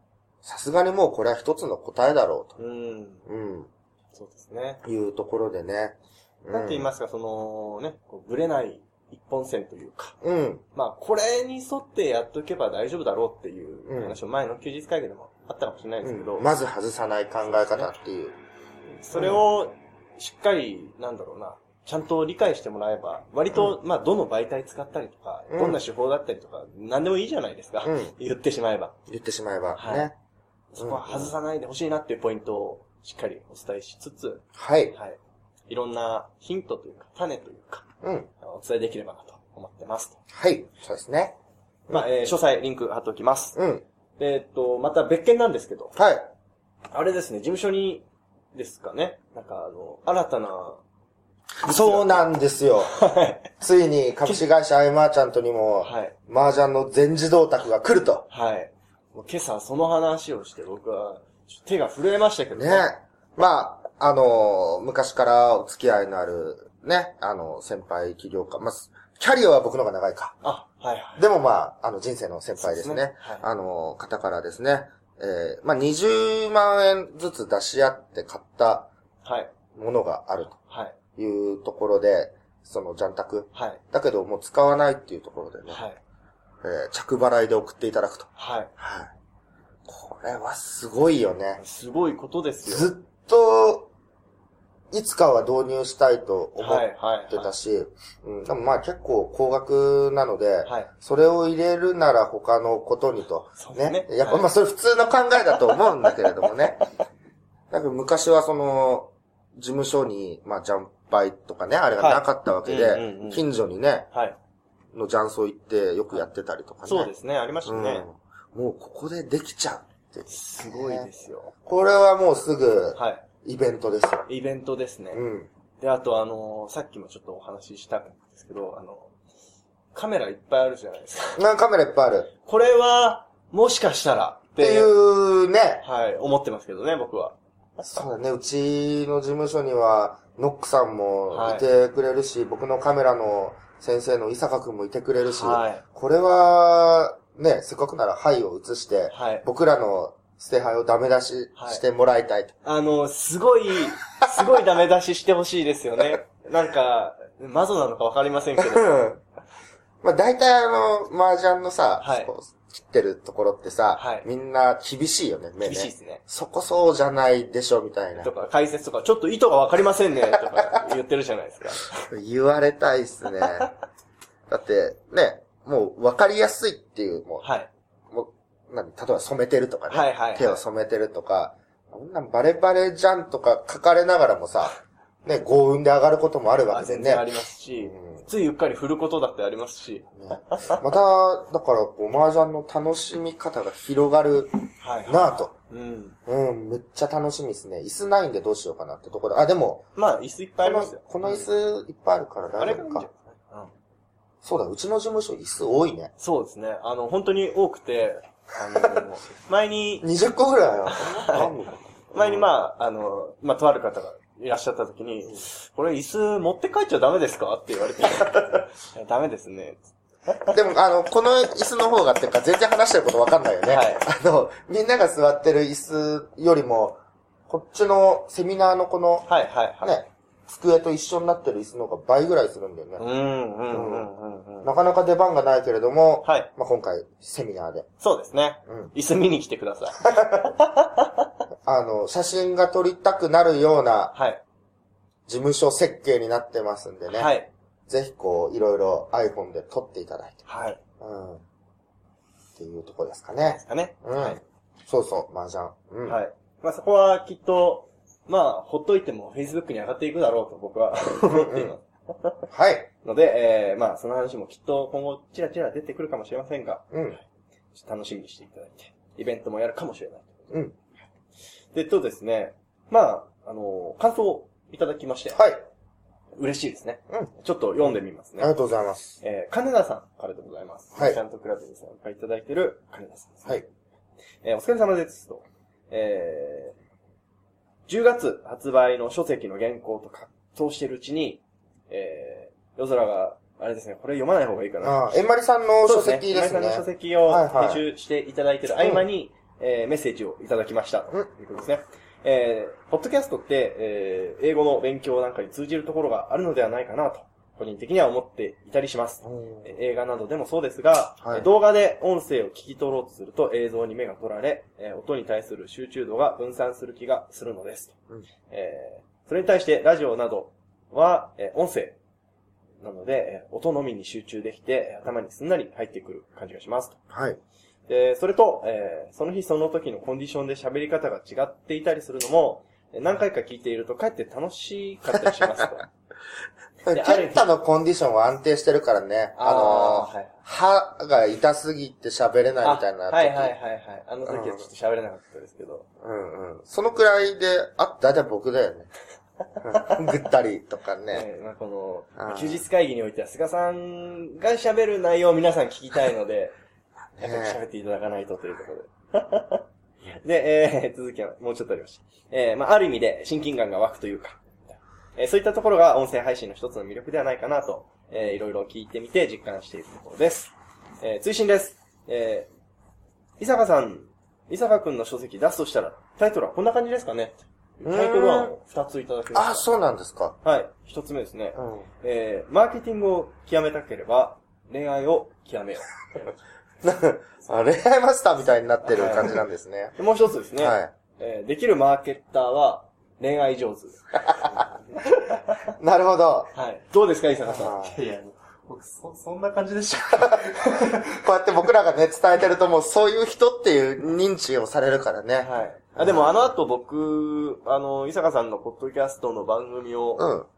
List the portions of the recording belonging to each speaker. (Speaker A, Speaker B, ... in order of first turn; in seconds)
Speaker A: 0.4-2.6, 3.3-3.7, 4.8-6.9, 10.2-10.6, 13.9-14.2, 16.0-18.4, 19.1-19.4, 25.5-25.8, 27.8-28.1, 29.1-30.1, 30.8-31.3, 34.5-35.0, 38.0-38.3, 40.3-41.4, 41.9-42.4, 43.5-43.8, 46.0-46.3, 51.6-53.0, 53.6-58.3, 62.5-70.4, 71.2-78.9, 79.8-80.6, 81.2-85.8, 86.6-89.1, 89.9-91.6, 92.7-93.9, 94.9-106.8, 107.7-114.1, 114.9-117.1, 117.7-124.3, 125.1-125.5, 131.4-132.3, 134.6-135.8, 137.8-152.5, 154.3-154.6, 158.6-159.2, 160.0-168.3, 170.3-170.8, 172.1-173.7, 174.5-177.5, 178.1-187.3, 187.8-188.3, 190.2-195.5, 196.3-199.9, 200.6-203.1, 204.4-206.1, 210.0-212.5, 220.5-229.3, 229.8-233.1, 233.7-234.1, 234.6-237.9, 238.7-238.9, 240.0-240.5, 241.7-244.2, 245.3-247.3, 247.9-250.5, 251.0-251.4, 252.6-256.2, 261.2-261.7, 262.5-262.9, 266.9-267.2, 275.3-275.6, 278.4-279.1, 280.9-281.2, 294.8-297.8, 298.8-299.1, 309.2-309.7, 327.1-327.4, 336.9-343.5, 344.3-344.7, 346.0-348.9, 349.6-351.3, 352.2-352.6, 357.2-357.6, 377.9-378.6, 379.3-380.4, 381.6-381.9, 386.8-390.0, 390.5-390.9, 395.7-396.5, 397.4-398.0, 400.2-406.5, 410.2-410.5
Speaker B: 2.6-3.2, 4.1-4.8, 6.5-10.2, 10.7-16.5, 19.0-28.9, 29.8-30.1, 30.7-35.2, 35.7-37.9, 38.4-40.2, 41.9-43.6, 44.2-46.0, 46.9-50.8, 51.6-52.3, 52.9-53.5, 55.8-56.1, 58.3-62.9, 70.4-71.2, 72.6-73.5, 79.2-79.5, 80.7-81.0, 83.5-83.8, 85.7-86.0, 88.4-88.7, 91.6-92.9, 96.6-97.5, 100.7-100.9, 103.6-104.5, 112.0-113.5, 116.8-118.1, 120.3-121.5, 123.0-123.2, 124.3-125.2, 125.8-129.1, 129.9-131.4, 132.4-134.9, 135.8-137.4, 141.3-141.7, 145.2-145.8, 149.1-149.4, 151.6-151.8, 152.7-159.1, 162.0-162.3, 163.9-164.3, 165.6-166.2, 168.2-172.1, 177.4-177.7, 179.9-180.6, 186.7-190.8, 194.8-196.2, 200.0-201.5, 202.6-203.7, 206.2-210.1, 210.9-220.6, 223.7-224.1, 229.3-230.0, 233.0-234.7, 236.2-236.5, 238.0-241.3, 244.1-244.4, 247.1-247.5, 250.5-250.8, 253.5-254.4, 256.1-262.4, 263.0-267.2, 267.7-270.6, 271.7-275.4, 276.4-278.5, 279.2-283.6, 284.4-286.8, 287.9-295.1, 295.9-317.9, 318.5-322.0, 322.8-327.0, 327.9-335.9, 336.9-337.5, 339.4-340.4, 342.6-345.9, 349.7-350.0, 351.1-356.6, 357.2-372.5, 373.4-379.7, 380.4-386.3, 388.8-389.4, 390.0-394.7, 395.3-395.6, 396.5-397.8, 405.4-410.3
Speaker C: 397.8-401.2